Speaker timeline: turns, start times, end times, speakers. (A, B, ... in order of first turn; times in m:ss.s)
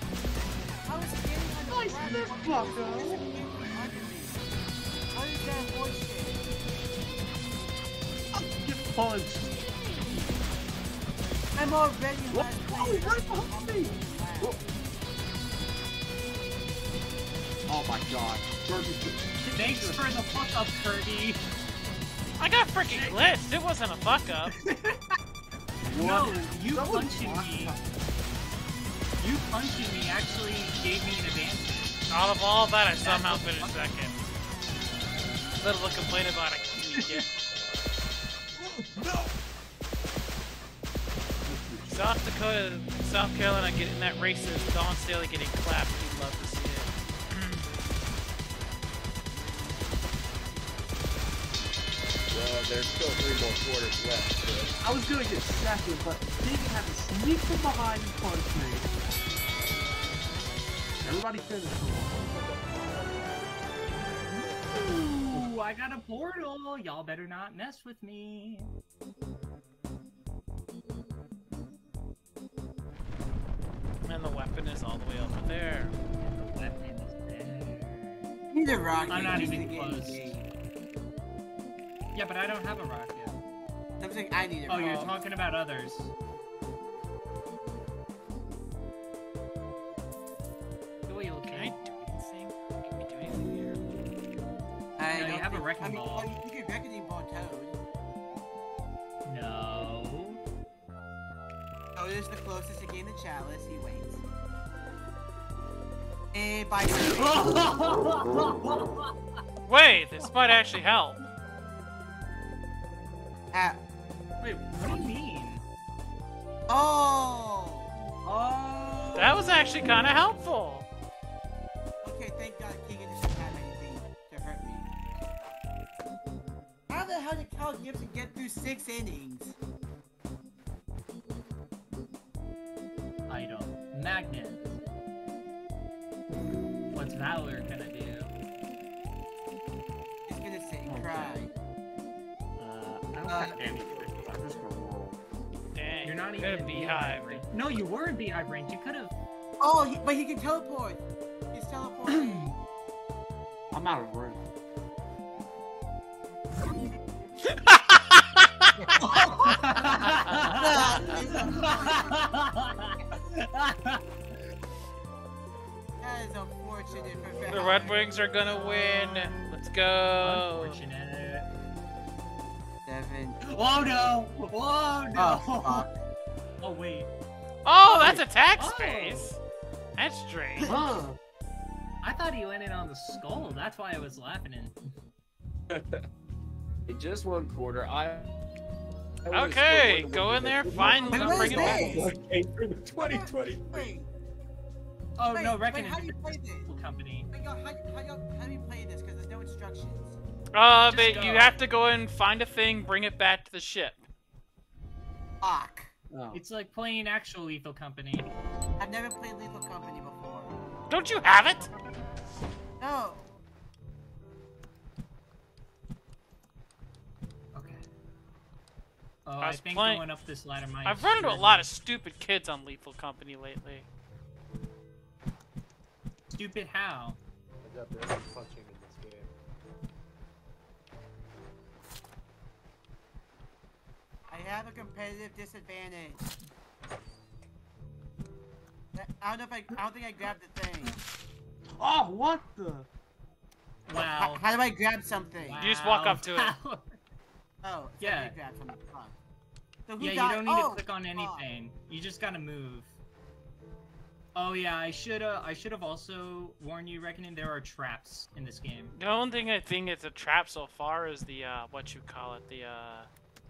0:00.9-0:04.5 A
0:01.6-0:03.4 B
0:05.1-0:06.4 A
0:08.3-0:09.6 B
0:11.6-0:14.7 A
0:12.3-0:14.6 B
0:17.7-0:20.2 B
0:19.6-0:21.4 C
0:22.4-0:24.5 D
0:22.9-0:23.3 B
0:25.8-0:27.9 B
0:25.9-0:27.8 C
0:29.2-0:31.9 C
0:32.1-0:34.3 D
0:33.0-0:33.9 C
0:35.6-0:37.3 D
0:36.8-0:37.3 B
0:38.6-0:39.3 B
0:41.4-0:42.2 B
0:41.9-0:47.7 D
0:52.3-0:54.7 E
0:54.8-0:58.9 B
1:01.0-1:02.5 B
1:02.1-1:05.4 F
1:04.7-1:08.7 C
1:14.0-1:16.0 D
1:16.2-1:18.3 C
1:18.5-1:20.5 A
1:19.1-1:20.4 C
1:22.1-1:23.4 C
1:24.0-1:25.2 A
1:24.7-1:26.1 C
1:31.1-1:31.8 C
1:31.5-1:33.9 D
1:35.0-1:37.8 A
1:35.1-1:36.3 C
1:39.3-1:40.4 C
1:42.0-1:44.2 A
1:46.3-1:47.7 A
1:47.2-1:49.1 C
1:49.7-1:51.2 D
1:53.5-1:53.8 A
1:54.6-1:55.6 C
1:56.7-1:57.9 A
1:58.3-1:59.4 C
1:59.2-2:00.9 D
2:02.0-2:04.9 A
2:06.9-2:09.6 A
2:13.3-2:14.8 C
2:16.9-2:18.3 C
2:20.3-2:21.5 A
2:20.9-2:21.4 B
2:22.6-2:25.2 B
2:23.3-2:23.6 A
2:25.8-2:27.4 D
2:26.0-2:29.1 C
2:29.6-2:32.6 A
2:32.1-2:32.6 C
2:33.7-2:34.4 B
2:37.7-2:38.2 D
2:38.8-2:39.1 F
2:39.0-2:42.9 A
2:39.4-2:44.0 C
2:46.0-2:48.0 A
2:46.9-2:48.5 F
2:47.5-2:50.8 D
2:48.5-2:49.6 C
2:50.2-2:51.5 C
2:52.9-2:53.4 A
2:53.4-2:55.9 C
2:55.2-2:55.9 A
2:56.6-2:57.1 C
2:57.6-2:59.4 D
2:57.9-2:58.7 B
2:58.6-2:59.3 C
3:00.0-3:00.8 D
3:00.6-3:01.2 B
3:02.0-3:04.8 C
3:05.7-3:06.0 E
3:06.9-3:08.3 E
3:09.2-3:12.2 E
3:09.3-3:12.1 D
3:10.8-3:13.9 B
3:11.1-3:12.1 A
3:12.7-3:13.2 E
3:13.0-3:14.1 A
3:15.2-3:17.3 C
3:15.3-3:16.7 A
3:17.3-3:20.2 A
3:20.5-3:24.0 D
3:20.9-3:21.6 C
3:25.4-3:25.9 A
3:26.1-3:26.4 B
3:26.3-3:28.3 C
3:28.8-3:30.6 A
3:30.9-3:31.7 D
3:32.8-3:33.3 A
3:37.5-3:37.9 C
3:39.3-3:41.7 C
3:39.4-3:40.0 D
3:40.8-3:43.9 D
3:46.3-3:47.2 C
3:47.6-3:49.3 F
3:54.3-3:56.2 A
3:58.9-4:01.0 A
4:01.7-4:02.9 B
4:03.9-4:04.4 C
4:04.2-4:05.6 A
4:05.4-4:07.0 C
4:05.6-4:06.6 D
4:07.6-4:09.2 A
4:08.0-4:08.4 C
4:09.9-4:11.5 A
4:10.0-4:12.9 C
4:14.4-4:19.0 C
4:19.0-4:23.1 D